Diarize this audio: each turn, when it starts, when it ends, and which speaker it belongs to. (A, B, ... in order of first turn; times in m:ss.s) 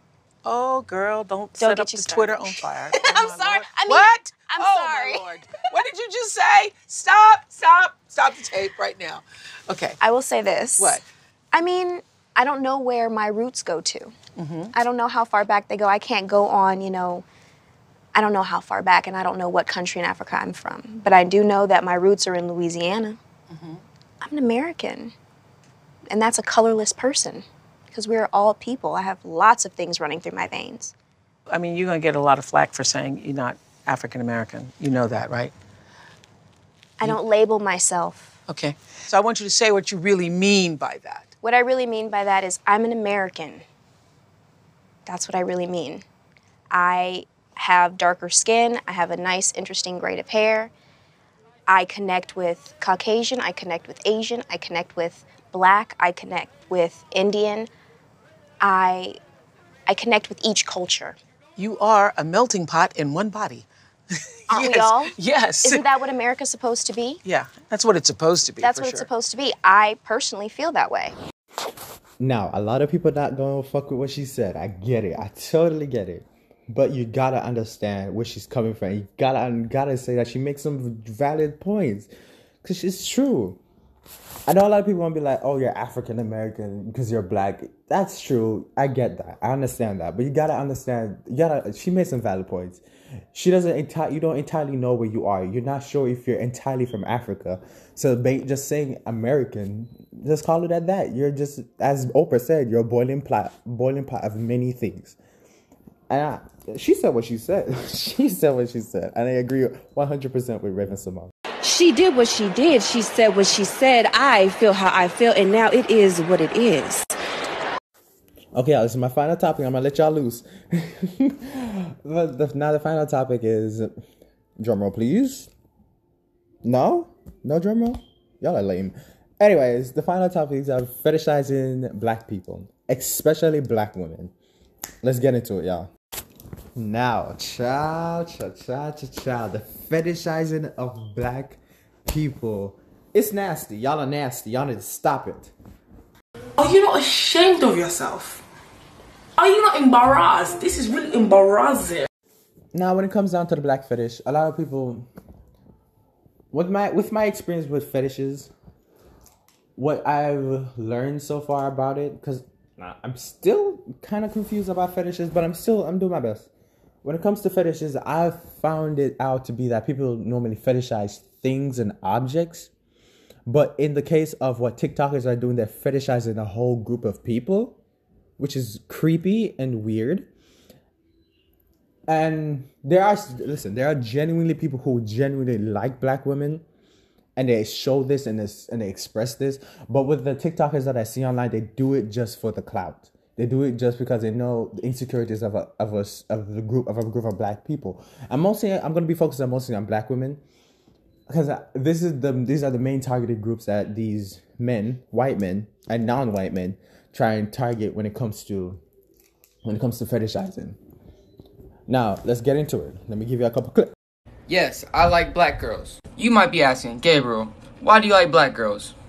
0:00.4-0:10.0 A
0:01.6-0:05.3 B
0:10.0-0:11.0 B
0:10.8-0:11.0 A
0:11.5-0:14.1 B
0:14.4-0:14.7 A
0:14.7-0:17.2 B
0:18.1-0:23.2 B
0:23.5-0:23.8 A
0:24.2-0:25.1 B
0:26.1-0:30.9 B
0:31.5-0:35.5 A
0:37.0-0:38.3 B
0:38.5-0:41.3 A
0:41.4-0:43.6 B
0:45.0-0:46.0 B
0:46.7-0:50.7 B
0:51.7-0:57.7 B
0:58.6-0:59.2 B
0:59.9-1:01.2 B
1:01.6-1:03.6 A
1:04.5-1:06.0 A
1:04.5-1:07.2 B
1:07.2-1:09.1 A
1:08.6-1:11.1 B
1:12.2-1:22.1 C
1:22.6-1:23.6 C
1:24.5-1:45.2 C
1:46.1-1:51.3 C
1:51.6-1:57.1 D
1:58.5-2:03.9 C
2:04.6-2:05.5 C
2:06.6-2:14.3 C
2:15.0-2:15.9 C
2:16.8-2:25.5 C
2:26.6-2:28.4 E
2:29.4-2:32.1 E
2:32.7-2:35.0 C
2:36.5-2:38.5 C
2:39.8-2:46.5 C
2:47.0-2:52.7 C
2:53.5-2:57.8 C
2:58.4-3:00.3 C
3:02.1-3:06.6 C
3:07.4-3:20.4 C
3:21.3-3:28.8 C
3:29.6-3:30.8 C
3:31.9-3:33.9 C
3:34.5-3:38.9 F